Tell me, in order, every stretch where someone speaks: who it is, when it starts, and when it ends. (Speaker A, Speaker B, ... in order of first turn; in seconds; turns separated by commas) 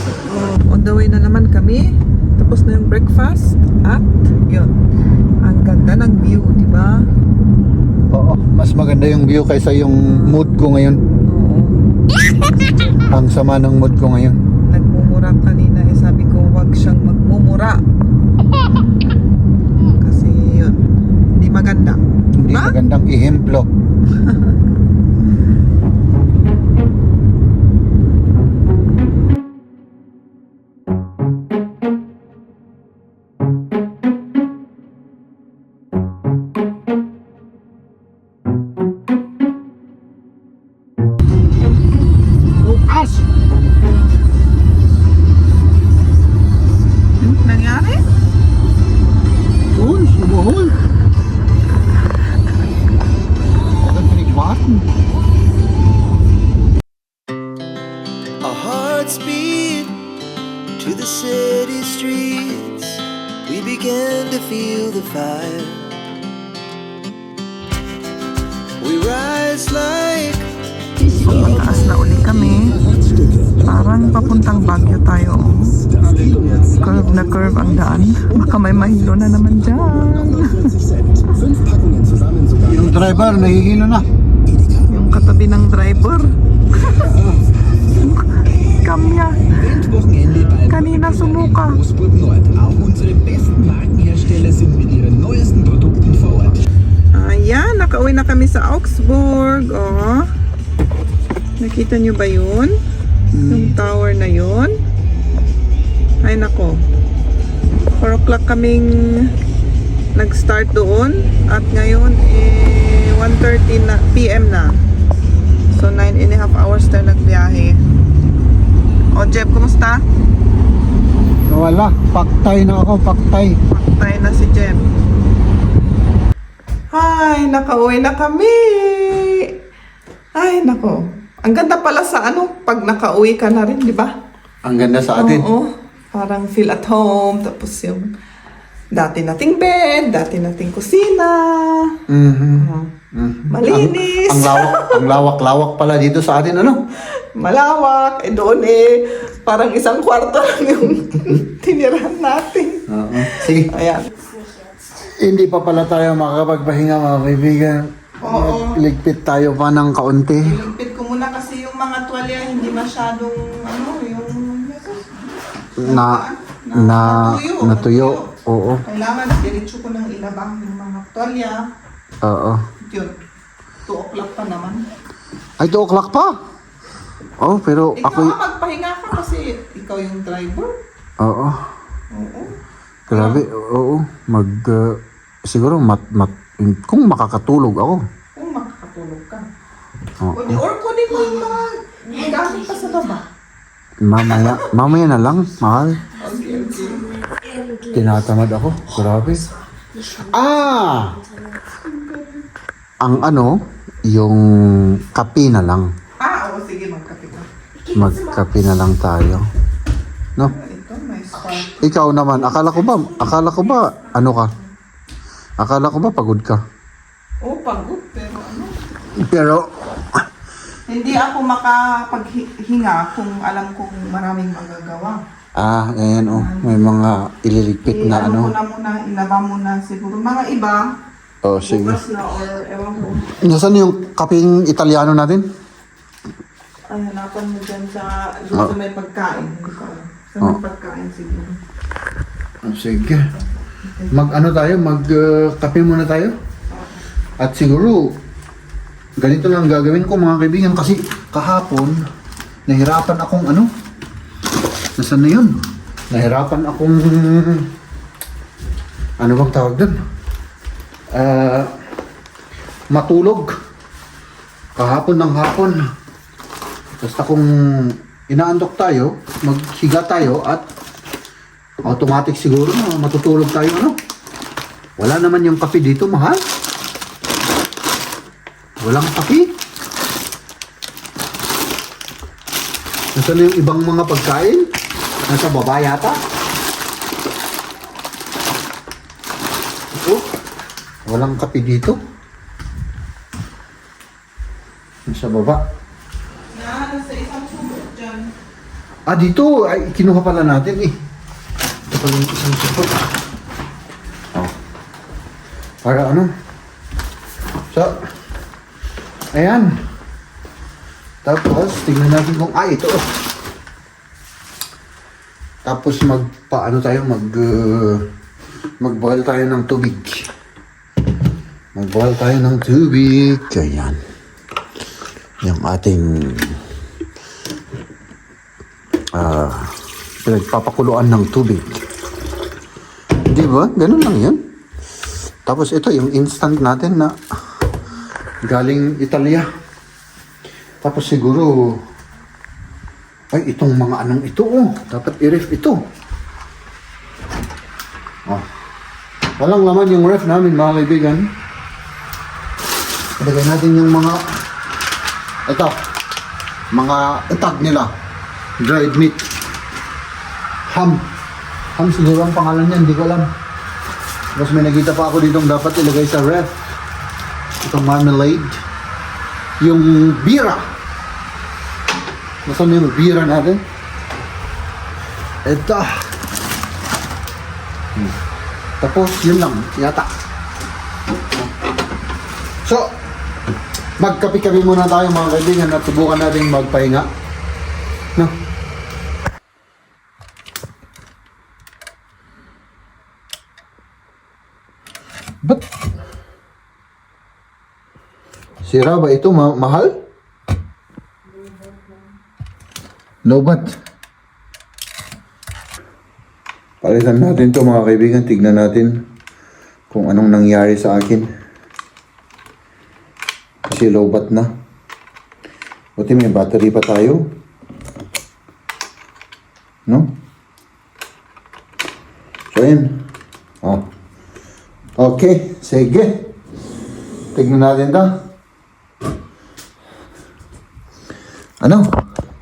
Speaker A: 0.3-4.7, Speaker A: 5.4-7.1, Speaker B: 8.1-11.0, Speaker A: 10.1-10.5, Speaker A: 11.3-11.8, Speaker B: 13.1-14.4, Speaker A: 14.7-17.8, Speaker A: 19.9-20.8, Speaker A: 21.3-22.8, Speaker B: 22.4-23.7, Speaker B: 42.6-43.3, Speaker A: 47.2-48.0, Speaker B: 49.7-50.8, Speaker B: 53.8-54.9, Speaker C: 58.4-60.1, Speaker C: 60.8-65.9, Speaker C: 68.8-70.5, Speaker A: 71.2-72.8, Speaker D: 73.2-73.5, Speaker A: 73.6-80.8, Speaker D: 76.0-76.9, Speaker D: 78.2-78.6, Speaker D: 80.1-82.6, Speaker B: 82.6-84.1, Speaker A: 84.9-87.1, Speaker A: 88.0-89.8, Speaker D: 89.5-96.6, Speaker A: 90.3-91.8, Speaker A: 97.1-100.3, Speaker A: 101.6-102.7, Speaker B: 103.3-103.8, Speaker A: 103.5-104.7, Speaker A: 106.2-106.8, Speaker A: 108.0-109.3, Speaker A: 110.2-114.8, Speaker A: 115.7-117.8, Speaker A: 119.1-120.0, Speaker B: 121.5-123.6, Speaker A: 123.7-124.9, Speaker A: 126.9-129.5, Speaker A: 130.4-134.1, Speaker B: 134.6-135.5, Speaker A: 135.2-138.1, Speaker A: 138.9-142.0, Speaker B: 142.1-146.8, Speaker A: 142.6-142.9, Speaker A: 143.5-145.1, Speaker A: 147.1-154.2, Speaker B: 152.9-153.7, Speaker B: 155.0-160.6, Speaker A: 158.2-158.8, Speaker A: 160.4-168.3, Speaker B: 165.8-168.8, Speaker A: 168.8-171.6, Speaker B: 172.2-172.6, Speaker A: 172.8-173.2, Speaker A: 173.9-174.8, Speaker B: 175.6-176.3, Speaker B: 177.4-178.4, Speaker A: 178.0-180.7, Speaker B: 181.2-181.7, Speaker A: 182.1-182.5, Speaker B: 183.1-188.0, Speaker A: 183.1-183.4, Speaker A: 188.3-189.5, Speaker B: 190.2-190.6, Speaker A: 190.3-193.2, Speaker B: 194.0-196.1, Speaker A: 194.3-194.6, Speaker A: 196.1-197.1, Speaker B: 197.9-199.5, Speaker B: 200.2-201.3, Speaker A: 201.8-202.4, Speaker B: 203.0-205.9, Speaker A: 206.2-207.5, Speaker B: 207.9-209.4, Speaker A: 210.4-211.8, Speaker B: 211.7-214.5, Speaker B: 215.6-216.6, Speaker A: 217.4-218.7, Speaker B: 219.2-219.7, Speaker A: 220.9-225.2, Speaker B: 225.6-228.5, Speaker A: 226.2-226.8, Speaker A: 227.9-230.8, Speaker B: 231.4-232.0, Speaker A: 231.6-233.3, Speaker B: 233.3-235.5, Speaker A: 236.9-241.6, Speaker B: 242.6-243.3, Speaker A: 243.8-244.4, Speaker B: 244.1-246.3, Speaker A: 246.7-247.0, Speaker B: 247.4-248.2, Speaker B: 249.2-252.0, Speaker B: 252.7-253.7, Speaker B: 255.0-255.5, Speaker B: 256.1-257.7, Speaker B: 259.2-259.9, Speaker B: 261.1-261.7, Speaker B: 262.9-263.5, Speaker B: 264.8-265.9, Speaker B: 267.0-270.6, Speaker B: 271.8-273.9, Speaker B: 275.0-276.4, Speaker B: 278.8-279.5, Speaker B: 283.1-284.7, Speaker B: 285.3-286.2, Speaker B: 290.0-290.3, Speaker B: 291.1-292.0, Speaker B: 295.1-295.6, Speaker A: 296.5-298.3, Speaker B: 299.1-301.0, Speaker B: 301.9-303.0, Speaker B: 305.8-306.3, Speaker B: 307.7-308.0, Speaker B: 309.3-309.8, Speaker B: 311.2-313.3, Speaker B: 315.6-318.1, Speaker B: 318.8-320.3, Speaker B: 321.8-324.0, Speaker B: 325.4-326.7, Speaker B: 329.1-331.7, Speaker B: 333.3-334.4, Speaker B: 335.5-337.2, Speaker B: 338.4-339.5, Speaker B: 340.8-341.8, Speaker B: 343.3-345.8, Speaker B: 349.4-351.3, Speaker B: 353.2-354.2, Speaker B: 355.5-355.8, Speaker B: 356.7-357.9, Speaker B: 358.6-359.3, Speaker B: 360.7-361.0, Speaker B: 361.8-363.3, Speaker B: 364.4-366.5, Speaker B: 367.6-368.6, Speaker B: 369.6-370.6, Speaker B: 372.5-373.6, Speaker B: 375.4-376.2, Speaker B: 378.8-380.1, Speaker B: 382.6-383.0, Speaker B: 384.0-387.1, Speaker B: 398.6-399.9, Speaker B: 403.2-403.7, Speaker B: 406.8-408.9, Speaker B: 409.9-411.3, Speaker B: 413.7-414.5, Speaker B: 416.0-417.2, Speaker B: 419.9-420.1, Speaker B: 422.5-423.0, Speaker B: 425.0-426.3, Speaker B: 427.3-428.1, Speaker B: 431.6-431.9